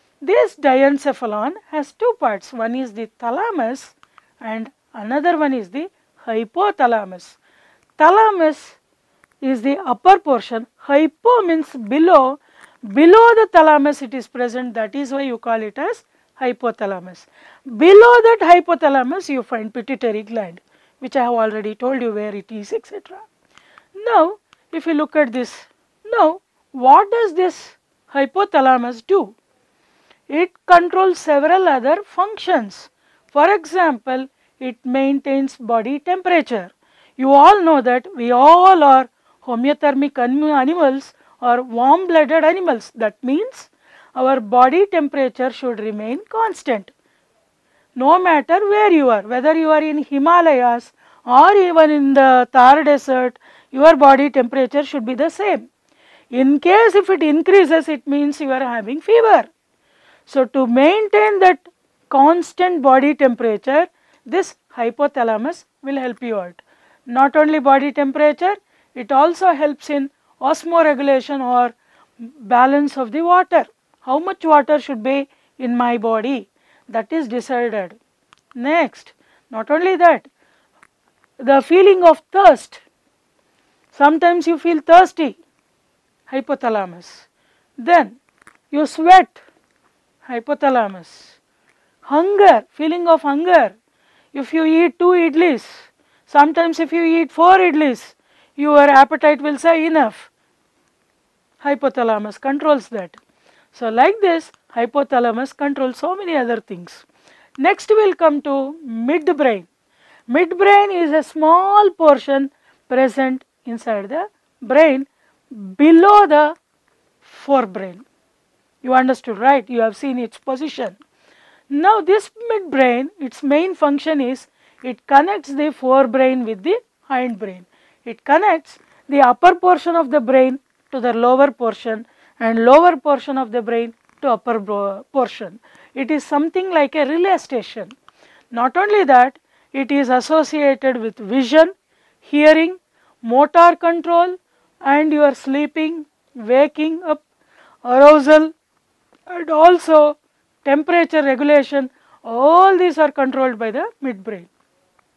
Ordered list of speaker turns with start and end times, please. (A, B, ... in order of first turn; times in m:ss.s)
0:00.2-0:07.4 A
0:08.0-0:08.8 A
0:09.4-0:12.4 A
0:12.9-0:23.2 A
0:24.0-0:29.4 A
0:30.3-0:46.9 A
0:48.0-0:55.7 A
0:56.3-0:59.5 A
1:00.3-1:18.0 A
1:18.6-1:20.3 A
1:21.4-1:22.8 A
1:23.9-1:25.4 A
1:26.3-1:27.3 A
1:27.8-1:28.2 A
1:28.7-1:29.4 A
1:30.3-1:31.4 A
1:32.0-1:33.8 A
1:34.3-1:40.3 A
1:41.6-1:43.2 A
1:43.7-1:47.0 A
1:47.6-1:49.7 A
1:50.3-1:56.6 A
1:57.2-1:58.0 A
1:58.8-2:01.0 A
2:01.7-2:17.9 A
2:18.5-2:21.7 A
2:22.2-2:27.2 A
2:27.8-2:28.5 A
2:29.3-2:34.5 A